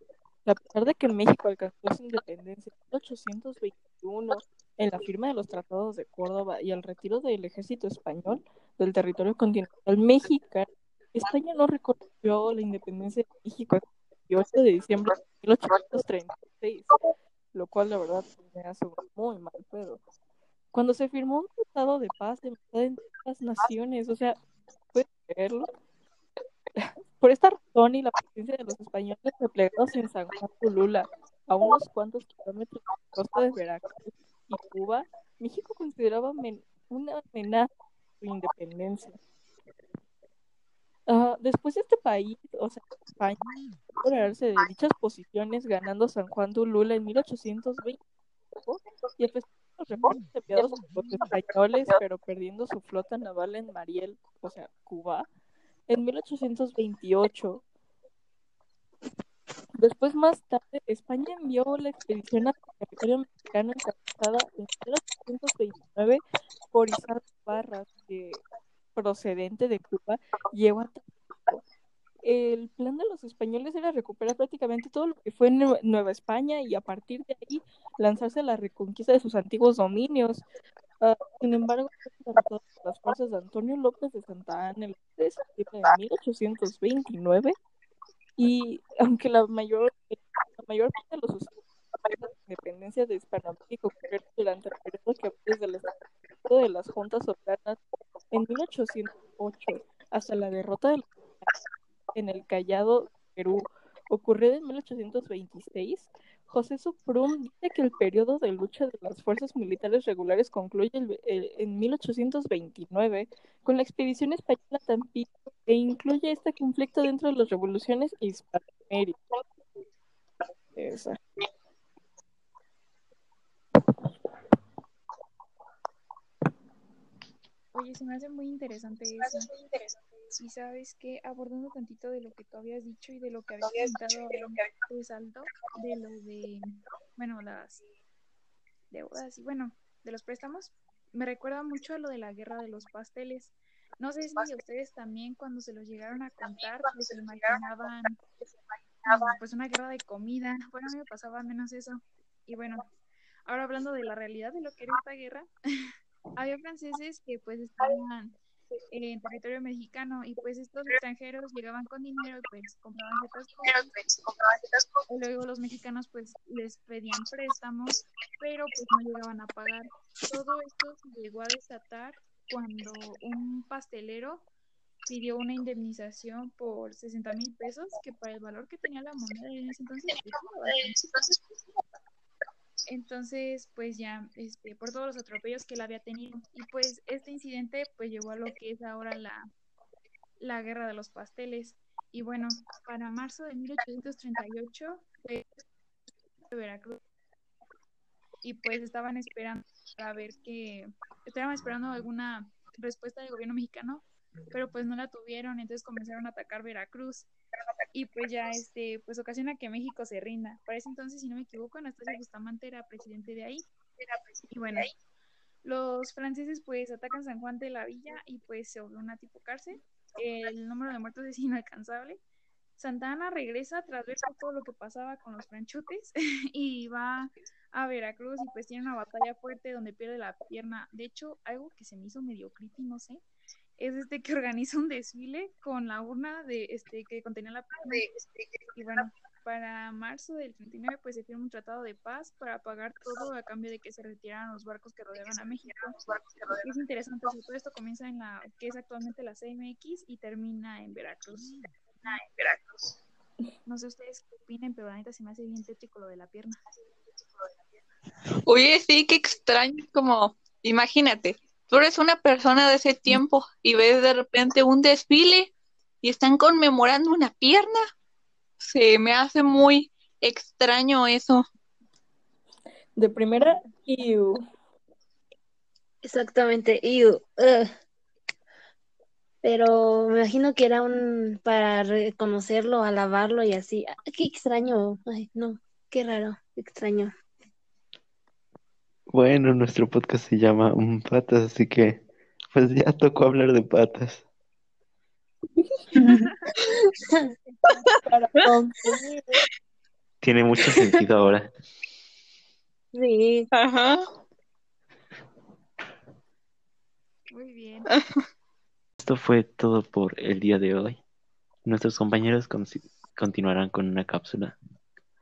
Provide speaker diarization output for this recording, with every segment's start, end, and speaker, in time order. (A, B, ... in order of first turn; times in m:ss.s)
0:00.4-0:20.0 A
0:20.7-0:24.4 A
0:24.9-0:25.7 A
0:26.8-0:37.7 A
0:38.2-0:39.2 A
0:41.1-0:43.4 A
0:44.0-0:48.0 A
0:48.6-0:55.3 A
0:55.9-0:57.6 A
0:59.8-1:08.4 A
1:08.9-1:11.6 A
1:12.2-1:20.4 A
1:21.0-1:27.6 A
1:28.4-1:31.6 A
1:32.1-1:35.9 A
1:36.4-1:37.8 A
1:38.3-1:41.5 A
1:42.1-1:59.2 A
2:00.7-2:01.2 A
2:07.7-2:09.5 B
2:10.4-2:17.8 B
2:18.9-2:28.2 B
2:29.0-2:32.8 B
2:33.4-2:35.5 B
2:36.4-2:38.4 B
2:38.9-2:43.9 B
2:45.1-2:54.4 B
2:55.1-3:01.3 B
3:02.9-3:09.5 B
3:10.4-3:15.4 B
3:16.5-3:17.0 B
3:18.4-3:27.3 B
3:27.9-3:33.7 B
3:34.5-3:34.9 B
3:35.6-3:42.2 B
3:42.8-3:53.2 B
3:53.8-3:58.0 B
3:58.7-4:05.9 B
4:06.6-4:12.2 B
4:12.3-4:12.6 C
4:13.6-4:16.6 B
4:18.5-4:27.8 C
4:28.6-4:31.4 C
4:33.0-4:34.4 A
4:36.0-4:37.7 D
4:39.4-4:47.1 D
4:49.1-4:54.2 E
4:57.7-4:58.4 C
4:58.0-4:59.4 A
5:00.2-5:01.5 E
5:02.9-5:03.5 D
5:03.5-5:04.0 C
5:07.3-5:07.9 B
5:09.0-5:11.0 E
5:11.6-5:14.6 E